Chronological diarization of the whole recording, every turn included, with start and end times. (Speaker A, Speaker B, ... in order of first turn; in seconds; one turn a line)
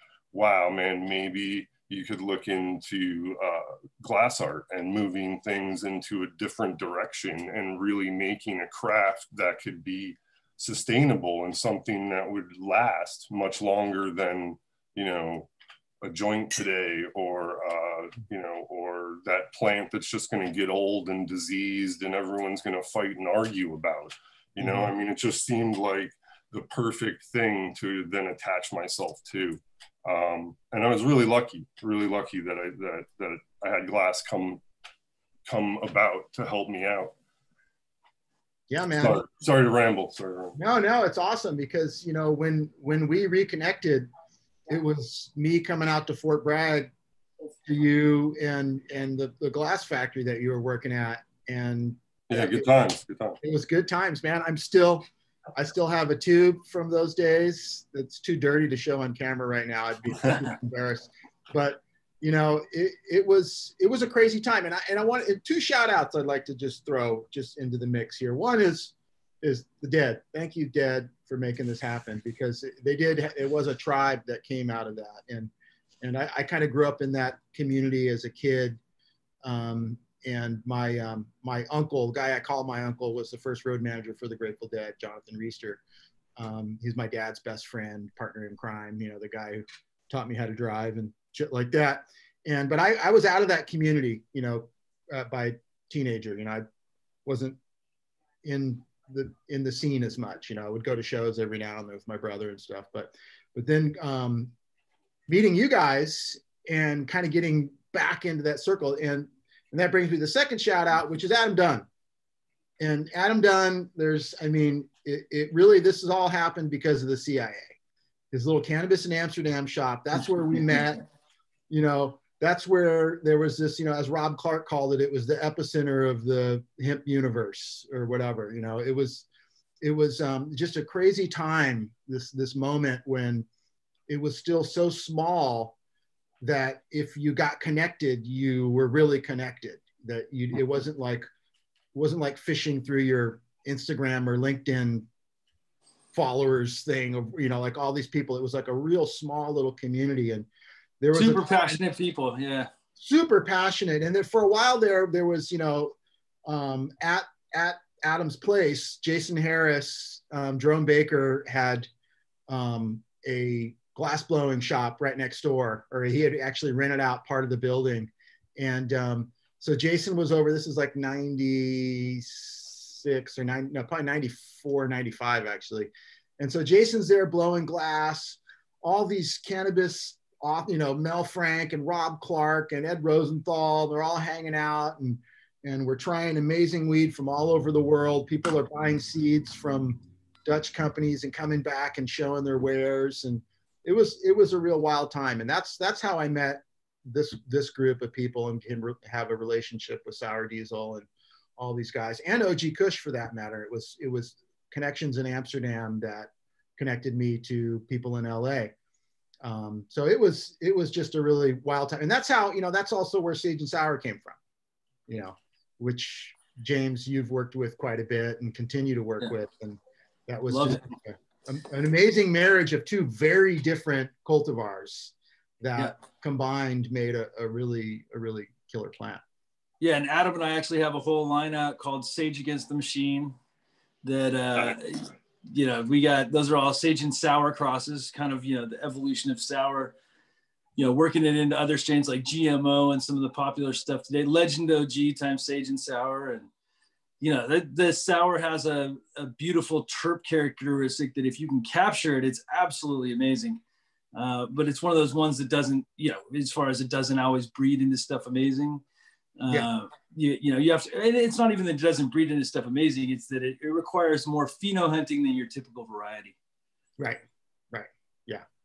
Speaker A: 0.3-15.5
Speaker A: 16.0-34.6
Speaker B: 24.6-24.9
Speaker A: 35.5-37.1
Speaker B: 38.7-39.2
Speaker A: 39.0-40.6
Speaker B: 40.6-44.1
Speaker B: 44.7-46.9
Speaker B: 47.7-52.7
Speaker A: 52.3-53.4
Speaker B: 53.4-75.5
Speaker B: 76.0-78.8
Speaker B: 79.4-85.8
Speaker B: 86.4-96.6
Speaker B: 97.2-97.6
Speaker B: 98.4-104.5
Speaker B: 105.3-111.9
Speaker B: 112.8-117.7
Speaker B: 118.3-121.0
Speaker B: 121.7-129.3
Speaker B: 129.8-133.5
Speaker B: 134.1-135.8
Speaker B: 136.4-141.3
Speaker B: 141.9-145.1
Speaker B: 146.1-150.5
Speaker B: 151.0-151.8
Speaker C: 151.1-152.7
Speaker B: 153.0-155.9
Speaker B: 156.4-161.9
Speaker B: 162.5-208.7
Speaker B: 209.4-214.4
Speaker B: 215.1-229.2
Speaker C: 220.5-220.8
Speaker C: 229.8-233.4
Speaker C: 234.0-239.9
Speaker C: 240.8-246.5
Speaker C: 247.2-253.6
Speaker C: 254.1-258.8
Speaker C: 259.4-266.4
Speaker B: 267.0-268.4